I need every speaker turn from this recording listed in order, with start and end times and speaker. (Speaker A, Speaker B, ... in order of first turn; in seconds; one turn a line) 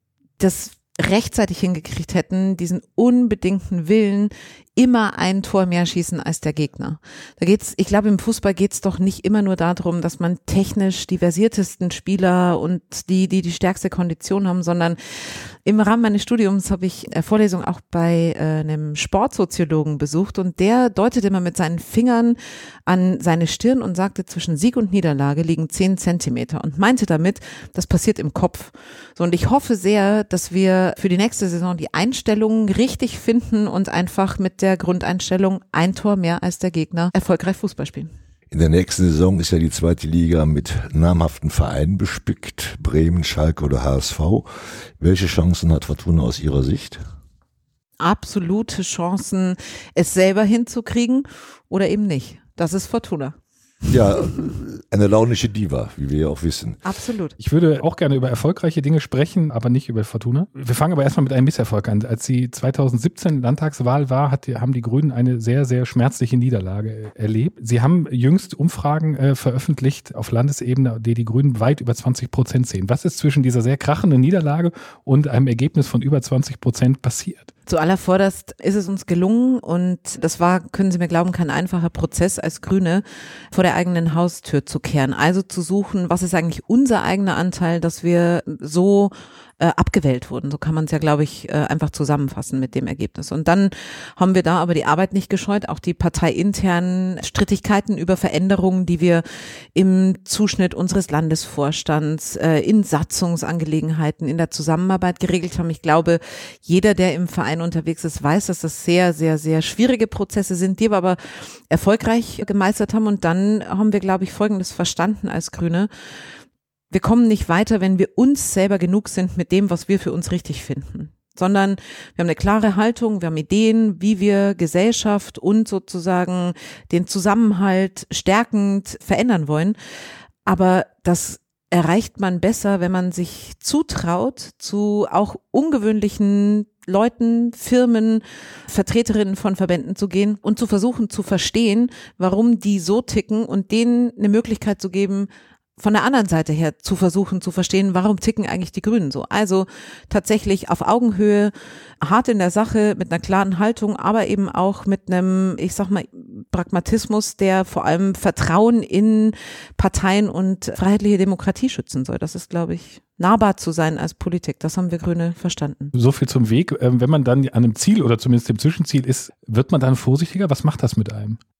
Speaker A: 0.4-38.1
Speaker B: 38.5-44.5
Speaker B: 45.0-47.0
Speaker A: 48.0-53.3
Speaker B: 53.9-56.8
Speaker A: 56.8-57.4
Speaker C: 57.4-77.5
Speaker A: 77.7-99.2
Speaker A: 99.7-111.2
Speaker A: 111.7-115.9
Speaker A: 116.9-129.8
Speaker A: 130.4-165.9
Speaker C: 165.9-171.4